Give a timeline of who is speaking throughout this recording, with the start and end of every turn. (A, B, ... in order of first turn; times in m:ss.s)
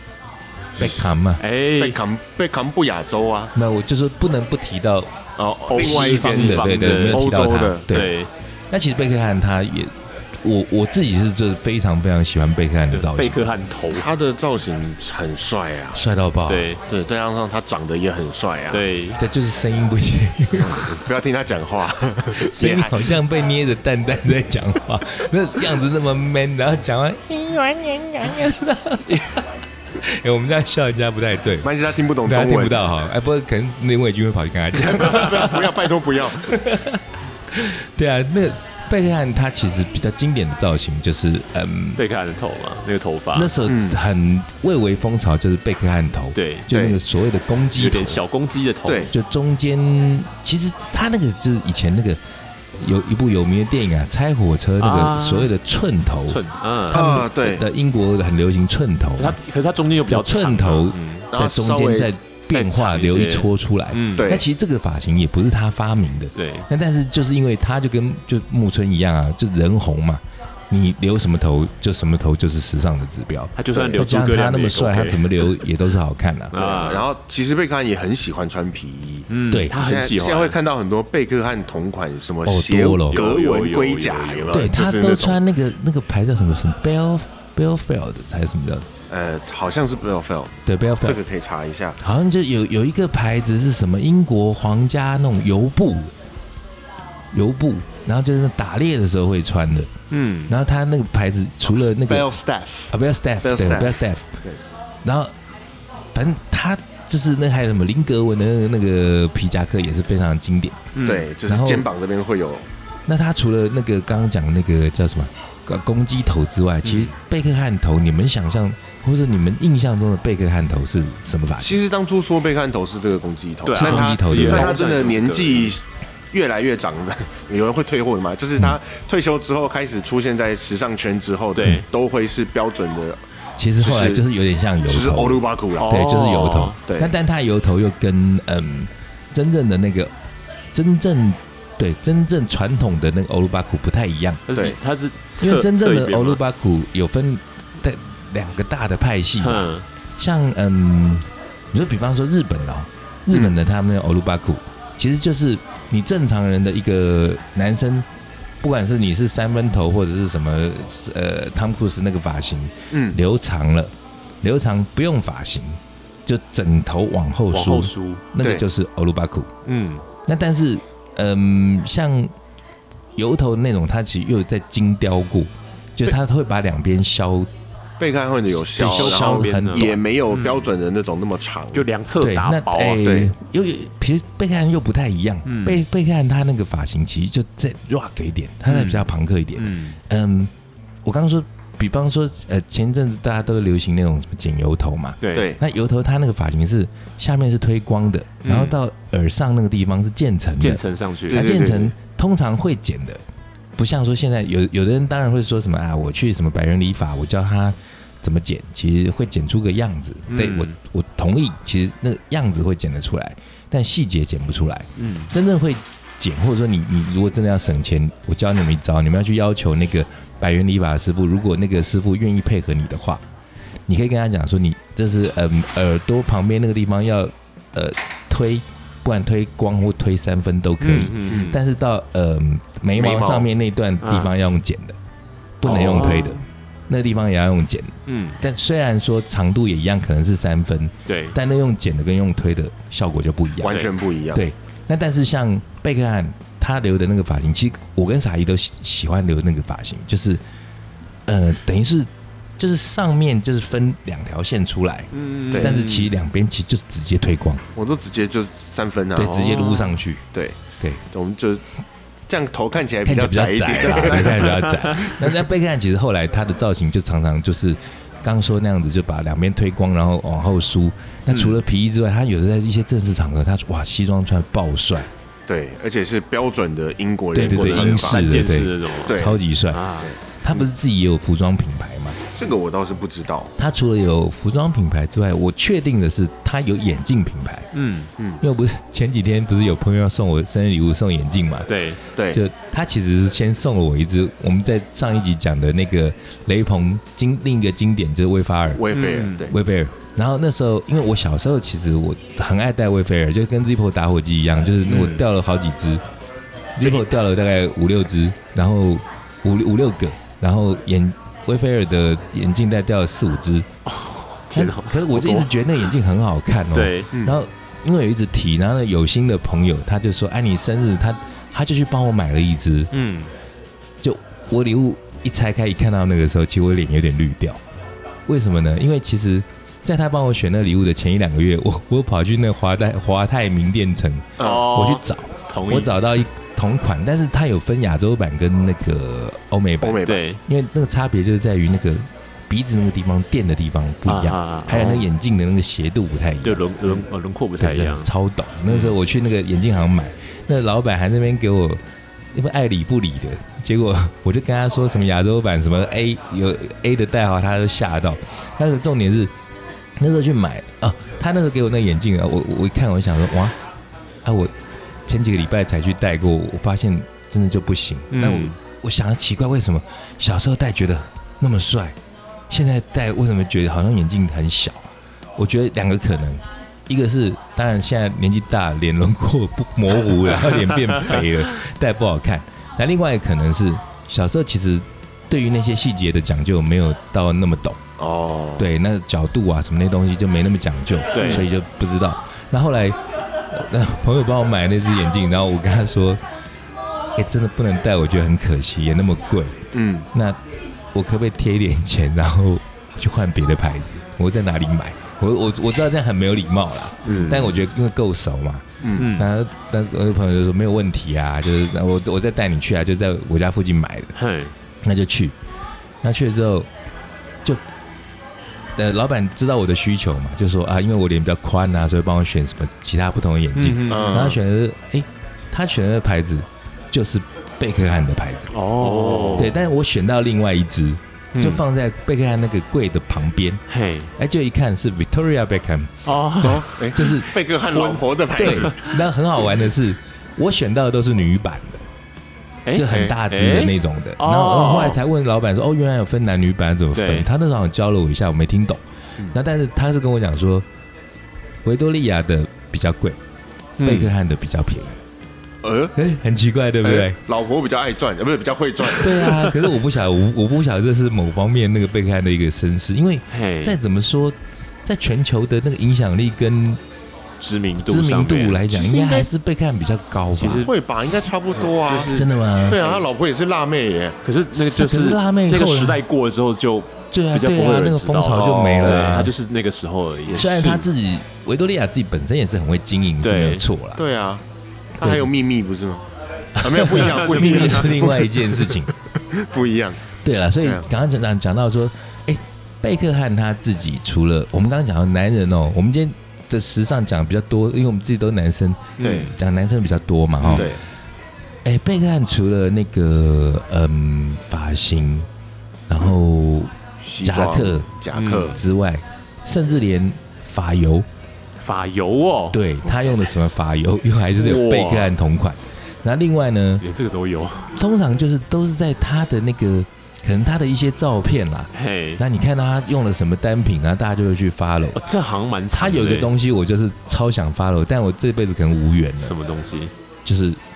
0:00.8-0:01.4 A
0:01.4-0:02.0 B
0:01.8-0:03.5 C
0:03.6-0:05.1 A
0:05.4-0:08.0 C
0:05.7-0:08.3 B
0:05.7-0:08.2 A
0:08.7-0:13.6 A
0:12.9-0:14.1 B
0:13.9-0:16.0 C
0:15.9-0:16.7 A
0:16.5-0:16.8 B
0:16.9-0:18.8 C
0:18.7-0:19.2 B
0:19.2-0:21.0 A
0:20.6-0:23.2 C
0:22.3-0:29.4 A
0:30.0-0:31.7 A
0:31.6-0:32.8 C
0:32.2-0:42.0 A
0:34.7-0:36.6 C
0:42.0-0:43.5 B
0:43.3-0:48.2 A
0:43.7-0:44.0 C
0:46.4-0:46.7 B
0:46.7-0:47.0 C
0:47.8-0:49.1 B
0:48.8-0:49.1 C
0:49.1-0:52.2 A
0:52.8-0:59.4 A
0:54.8-0:55.5 B
0:56.3-0:57.0 B
0:56.9-0:57.7 C
0:59.2-1:01.3 B
1:00.1-1:16.6 A
1:01.3-1:02.1 C
1:02.5-1:04.3 B
1:04.2-1:04.4 C
1:06.4-1:06.7 B
1:13.6-1:15.7 B
1:13.7-1:14.0 C
1:16.5-1:17.1 B
1:16.6-1:25.4 C
1:19.3-1:20.6 B
1:19.5-1:19.8 A
1:22.5-1:23.2 A
1:23.1-1:24.7 B
1:24.5-1:28.9 A
1:29.1-1:32.0 C
1:30.7-1:31.2 A
1:32.0-1:36.1 A
1:37.3-1:39.9 A
1:40.1-1:40.5 B
1:40.5-1:42.3 A
1:42.1-1:44.6 C
1:42.9-1:44.3 A
1:45.0-1:45.3 A
1:46.1-1:50.9 A
1:50.9-1:51.3 B
1:51.0-1:52.7 C
1:51.5-1:51.9 A
1:53.1-2:01.8 A
1:56.8-1:57.1 B
2:01.6-2:13.2 C
2:03.6-2:05.8 B
2:03.7-2:04.7 A
2:11.6-2:11.8 B
2:13.6-2:20.1 A
2:13.8-2:14.2 C
2:14.9-2:16.0 C
2:15.8-2:16.8 B
2:16.9-2:17.1 C
2:20.7-2:24.4 A
2:24.5-2:26.4 B
2:25.4-2:38.1 A
2:29.4-2:29.8 B
2:33.3-2:33.6 C
2:38.6-2:49.5 A
2:42.9-2:43.2 C
2:47.5-2:48.2 B
2:48.4-2:48.7 C
2:49.7-2:50.0 B
2:50.3-2:52.3 A
2:53.2-2:57.5 A
2:58.0-3:01.9 C
2:58.8-3:00.0 A
2:58.8-3:00.7 B
3:01.7-3:03.0 B
3:02.2-3:10.5 A
3:03.0-3:03.3 C
3:05.4-3:05.8 B
3:08.7-3:10.0 B
3:11.0-3:23.2 A
3:15.2-3:15.5 B
3:15.3-3:15.6 C
3:18.4-3:18.8 B
3:20.6-3:21.4 B
3:21.3-3:21.9 C
3:23.8-3:43.2 A
3:30.3-3:30.8 B
3:35.0-3:35.3 B
3:43.9-3:55.0 A
3:50.8-3:51.6 B
3:53.0-3:53.5 C
3:54.0-3:54.3 B
3:55.6-4:03.8 A
3:55.7-3:56.3 C
3:55.7-3:56.4 B
3:58.1-3:58.4 B
4:01.1-4:01.4 B
4:03.6-4:04.4 C
4:04.3-4:10.4 A
4:11.3-4:17.6 A
4:15.1-4:16.0 B
4:15.5-4:16.1 C
4:17.8-4:19.7 C
4:19.2-4:20.3 A
4:19.2-4:20.0 B
4:21.1-4:21.6 C
4:22.3-4:25.2 C
4:23.0-4:35.1 A
4:23.9-4:25.1 B
4:35.5-4:38.4 C
4:37.3-4:39.8 A
4:37.4-4:40.1 B
4:39.1-4:39.4 C
4:40.0-4:40.7 C
4:40.4-4:42.2 A
4:42.3-4:43.5 C
4:43.6-4:47.7 A
4:47.7-4:48.1 B
4:48.4-4:51.7 A
4:51.7-4:52.0 B
4:52.2-4:52.4 C
4:52.3-4:58.9 A
4:58.8-4:59.6 C
4:58.9-4:59.5 B
4:59.5-5:06.0 A
5:04.8-5:05.2 B
5:06.8-5:13.7 A
5:13.9-5:15.5 B
5:14.6-5:22.9 A
5:16.7-5:17.1 B
5:17.1-5:17.4 C
5:22.9-5:23.3 B
5:24.0-5:27.6 A
5:28.3-5:46.6 A
5:34.4-5:34.7 C
5:34.4-5:36.2 B
5:39.8-5:40.2 C
5:40.0-5:40.4 B
5:44.1-5:45.1 B
5:46.4-5:48.1 B
5:47.6-5:51.8 A
5:48.7-5:49.0 B
5:52.3-5:59.3 A
6:00.0-6:03.6 A
6:04.2-6:04.5 A
6:05.1-6:12.0 A
6:08.1-6:08.6 B
6:12.5-6:27.8 A
6:20.5-6:21.3 B
6:28.0-6:28.7 C
6:28.6-6:33.0 A
6:31.1-6:31.5 B
6:33.5-6:36.2 A
6:37.2-6:40.4 A
6:39.7-6:40.1 C
6:40.9-6:54.1 A
6:46.9-6:47.6 B
6:48.8-6:49.1 C
6:49.0-6:49.3 B
6:54.2-6:54.5 B
6:54.8-6:55.4 A
6:56.0-6:56.7 A
6:58.8-7:08.5 A
7:03.6-7:04.4 B
7:03.9-7:04.4 C
7:08.5-7:09.5 B
7:08.8-7:09.5 C
7:09.4-7:13.6 A
7:11.3-7:11.6 B
7:13.7-7:14.1 B
7:14.2-7:16.1 A
7:16.0-7:18.9 B
7:16.4-7:18.9 C
7:16.9-7:17.3 A
7:18.4-7:21.8 A
7:22.7-7:25.0 B
7:22.7-7:30.7 A
7:22.9-7:23.2 C
7:27.0-7:27.3 B
7:31.6-7:33.2 A
7:33.8-7:34.1 B
7:33.8-7:35.0 A
7:35.6-7:36.0 C
7:36.0-7:37.2 A
7:36.8-7:39.5 C
7:38.9-7:46.8 A
7:43.3-7:43.8 B
7:47.4-7:48.7 B
7:47.8-7:50.7 A
7:48.7-7:49.3 C
7:50.3-7:50.7 B
7:50.4-7:52.1 C
7:51.7-7:53.1 B
7:52.1-7:52.8 A
7:52.7-7:54.2 C
7:54.2-8:00.5 B
7:54.5-7:56.0 A
7:57.1-7:59.3 A
7:58.3-7:59.2 C
8:00.3-8:00.9 C
8:00.4-8:04.0 A
8:03.2-8:03.7 B
8:04.0-8:04.4 C
8:05.0-8:06.1 C
8:05.0-8:05.3 A
8:06.6-8:08.9 A
8:06.6-8:08.7 C
8:06.9-8:08.0 B
8:09.3-8:10.0 C
8:10.2-8:20.7 A
8:19.0-8:19.4 B
8:19.0-8:19.3 C
8:20.4-8:20.7 B
8:20.5-8:20.8 C
8:21.6-8:25.3 A
8:25.9-8:27.9 A
8:27.0-8:28.6 C
8:28.1-8:28.6 B
8:28.5-8:31.1 A
8:31.6-8:32.6 B
8:32.5-8:36.8 A
8:34.4-8:35.1 B
8:36.8-8:37.7 B
8:37.7-8:45.0 A
8:41.7-8:42.2 B
8:45.0-8:46.3 B
8:45.7-8:49.4 A
8:49.2-8:49.9 B
8:50.2-8:50.6 A